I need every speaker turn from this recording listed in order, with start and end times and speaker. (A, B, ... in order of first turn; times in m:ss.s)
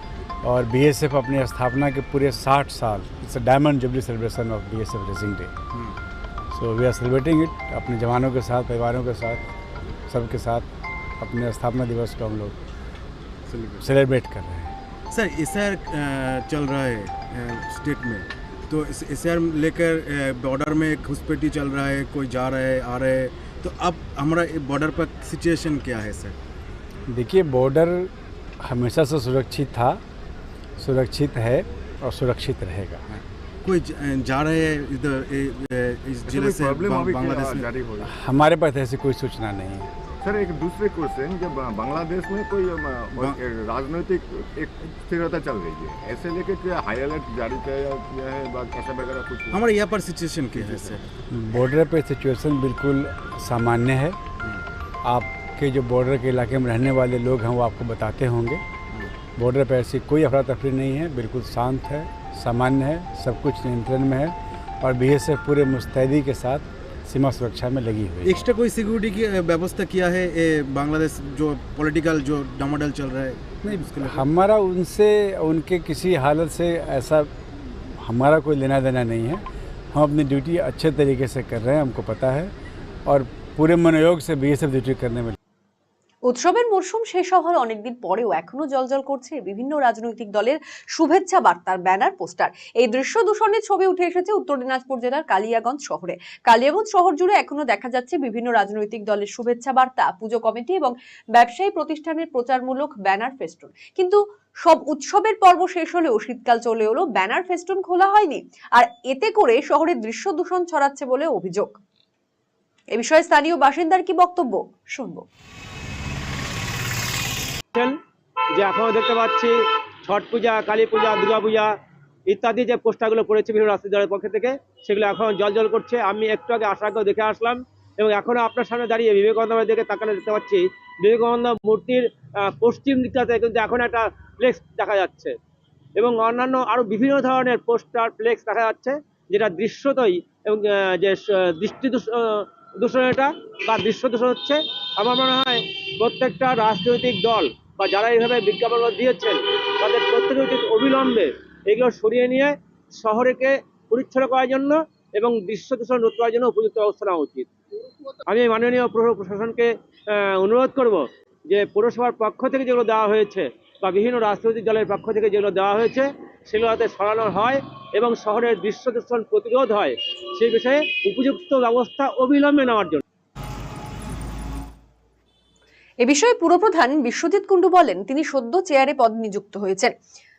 0:00.4-0:05.5 A
0:05.7-0:06.0 B
0:06.5-0:09.4 A
0:10.1-0:10.7 A
0:11.2-0:12.6 A
0:13.5-0:13.8 B
0:13.8-0:14.7 A
0:15.1-0:26.4 B
0:27.1-0:28.1 A
0:28.6-0:30.0 A
0:30.8-0:33.0 A
0:33.1-0:37.7 B
0:36.2-0:38.1 C
0:38.1-0:39.9 A
0:40.2-0:49.6 C
0:49.5-0:51.0 B
0:50.6-0:51.0 C
0:51.3-0:54.2 A
0:55.0-0:58.6 A
0:59.4-1:08.4 A
1:08.2-1:14.3 B
1:13.6-1:22.5 A
1:23.1-1:25.4 A
1:26.3-1:51.8 D
1:53.0-1:55.2 D
1:58.5-2:01.7 E
2:02.3-2:15.4 E
2:16.0-2:37.5 E
2:38.3-2:53.0 E
2:56.0-2:59.9 D